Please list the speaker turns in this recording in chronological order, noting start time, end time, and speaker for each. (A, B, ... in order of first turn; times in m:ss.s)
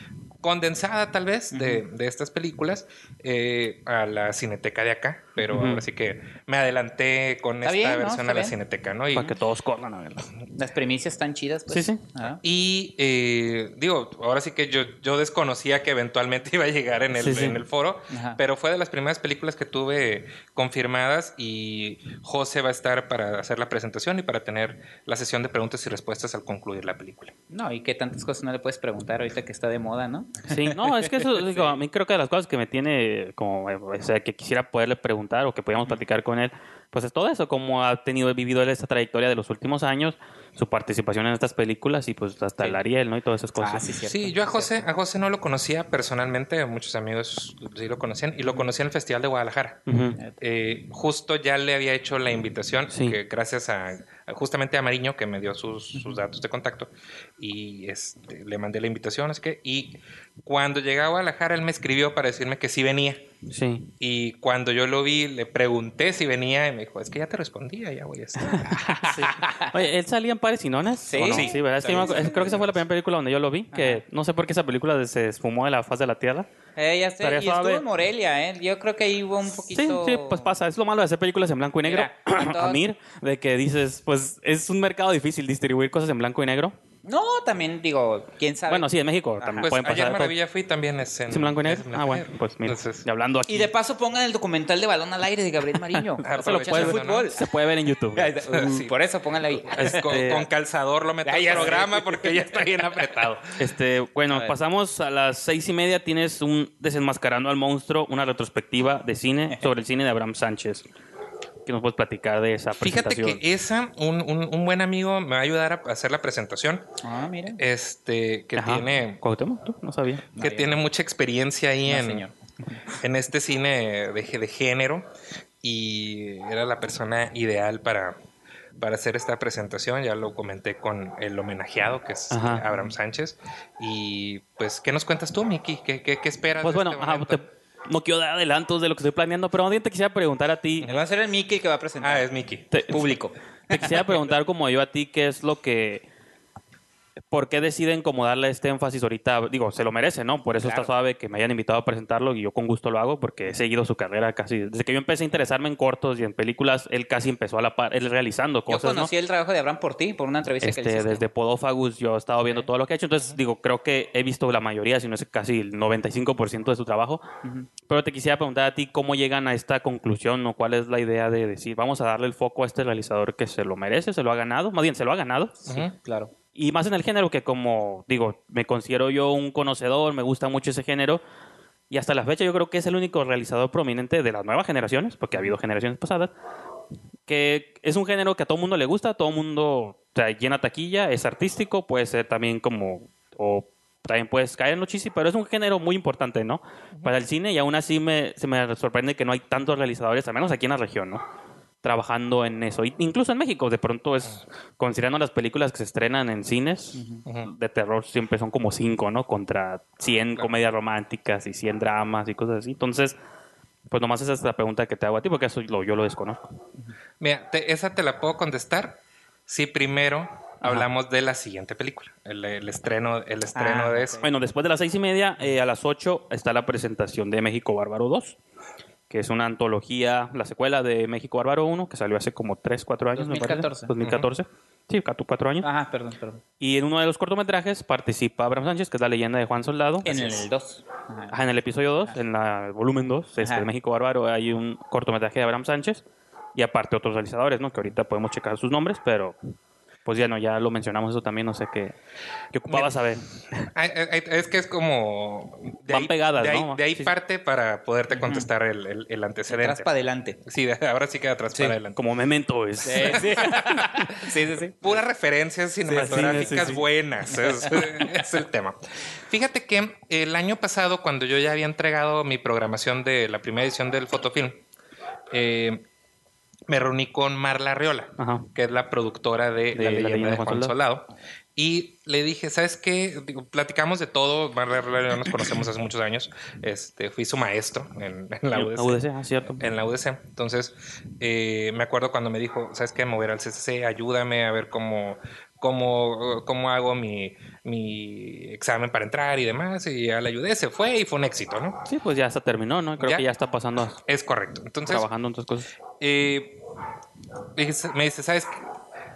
0:00.4-0:09.4 A
0:01.5-0:01.8 B
0:05.5-0:05.8 C
0:07.6-0:08.5 B
0:09.1-0:10.3 C
0:10.6-0:12.4 B
0:11.7-0:12.0 C
0:12.4-0:27.3 A
0:17.1-0:17.6 C
0:18.1-0:18.4 B
0:27.5-0:31.7 B
0:30.5-0:43.9 C
0:43.6-0:44.9 B
0:44.1-0:49.9 A
0:49.9-0:50.2 C
0:50.4-1:03.3 A
0:52.9-0:53.2 C
1:03.5-1:03.9 C
1:04.0-1:08.8 A
1:08.4-1:16.5 C
1:08.7-1:09.8 B
1:11.0-1:12.6 B
1:11.3-1:12.8 A
1:13.7-1:14.0 B
1:16.8-1:20.5 B
1:17.2-1:17.8 C
1:19.6-1:26.7 C
1:21.8-1:22.9 B
1:27.0-1:29.7 B
1:28.7-1:30.3 C
1:29.6-1:33.0 A
1:31.3-1:33.7 C
1:33.5-1:37.5 B
1:36.2-1:37.3 A
1:36.2-1:38.4 C
1:38.1-1:40.1 B
1:38.5-1:38.9 A
1:39.6-1:43.6 A
1:39.8-1:40.4 C
1:41.2-1:42.7 B
1:43.6-1:50.8 C
1:44.3-1:44.6 B
1:51.6-1:53.4 C
1:52.8-1:56.9 A
1:57.0-1:57.6 B
1:57.5-1:59.2 A
1:58.6-2:00.2 C
2:00.3-2:00.7 B
2:00.4-2:02.2 A
2:01.9-2:02.8 B
2:03.0-2:05.1 A
2:05.6-2:08.2 A
2:08.8-2:17.4 A
2:12.3-2:12.6 C
2:16.6-2:20.9 C
2:20.8-2:22.2 B
2:22.0-2:22.7 A
2:22.7-2:23.1 C
2:22.9-2:24.0 B
2:23.7-2:26.0 C
2:27.3-2:39.1 C
2:30.6-2:30.9 B
2:38.7-2:41.2 B
2:40.6-2:47.2 C
2:47.9-2:55.8 C
2:55.7-2:55.9 A
2:55.7-2:56.3 B
2:56.5-3:01.2 C
3:01.9-3:06.3 C
3:07.3-3:21.2 C
3:21.8-3:33.2 C
3:26.9-3:27.2 B
3:33.9-3:36.5 C
3:37.2-3:44.2 A
3:43.5-3:44.2 B
3:44.2-3:48.4 C
3:49.1-3:55.6 C
3:53.2-3:53.9 B
3:54.0-3:54.3 A
3:55.6-3:56.4 B
3:56.6-4:00.4 C
4:00.0-4:01.4 B
4:01.3-4:06.0 C
4:03.4-4:03.7 B
4:06.5-4:09.4 C
4:10.0-4:12.0 C
4:12.5-4:13.7 C
4:13.7-4:19.9 A
4:15.9-4:17.1 C
4:18.1-4:18.5 B
4:19.5-4:20.4 B
4:20.4-4:22.0 A
4:21.5-4:21.8 B
4:22.0-4:23.5 C
4:22.8-4:25.0 B
4:23.0-4:23.6 A
4:24.8-4:34.6 A
4:25.8-4:27.8 B
4:26.0-4:26.8 C
4:35.3-4:35.8 A
4:36.7-4:49.0 A
4:38.2-4:38.5 C
4:39.7-4:40.7 C
4:48.5-4:49.7 C
4:49.6-5:01.8 A
5:01.9-5:04.0 C
5:03.0-5:03.2 A
5:04.0-5:05.1 A
5:04.9-5:05.7 C
5:06.0-5:06.6 A
5:07.6-5:08.7 A